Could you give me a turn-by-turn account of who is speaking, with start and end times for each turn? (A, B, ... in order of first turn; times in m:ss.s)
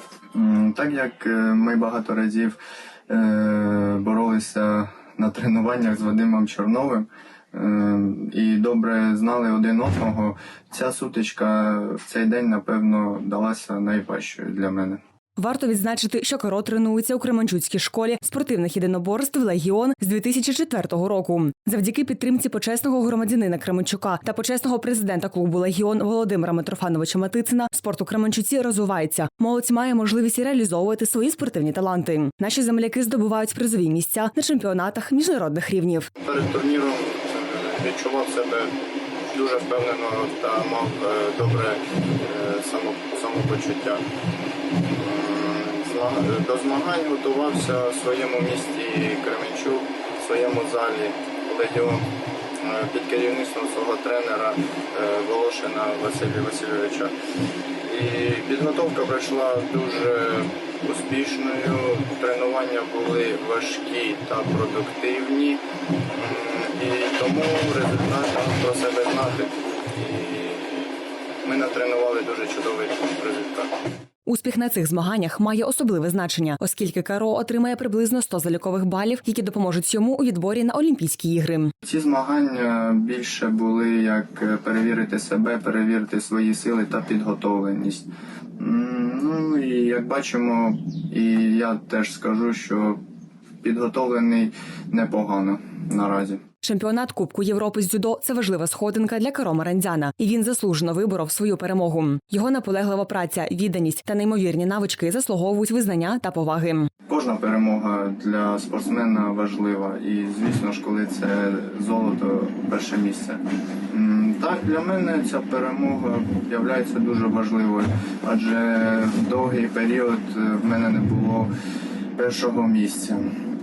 0:00.3-0:15.0 A
0:15.4-0:36.1 B
0:36.2-0:38.7 A
0:39.3-0:44.0 A
0:44.9-0:57.1 A
0:57.8-1:13.7 A
1:14.2-1:21.7 B
1:21.8-1:33.0 A
1:33.6-1:36.4 A
1:36.6-1:46.9 B
1:47.1-2:01.5 A
2:02.2-2:03.3 A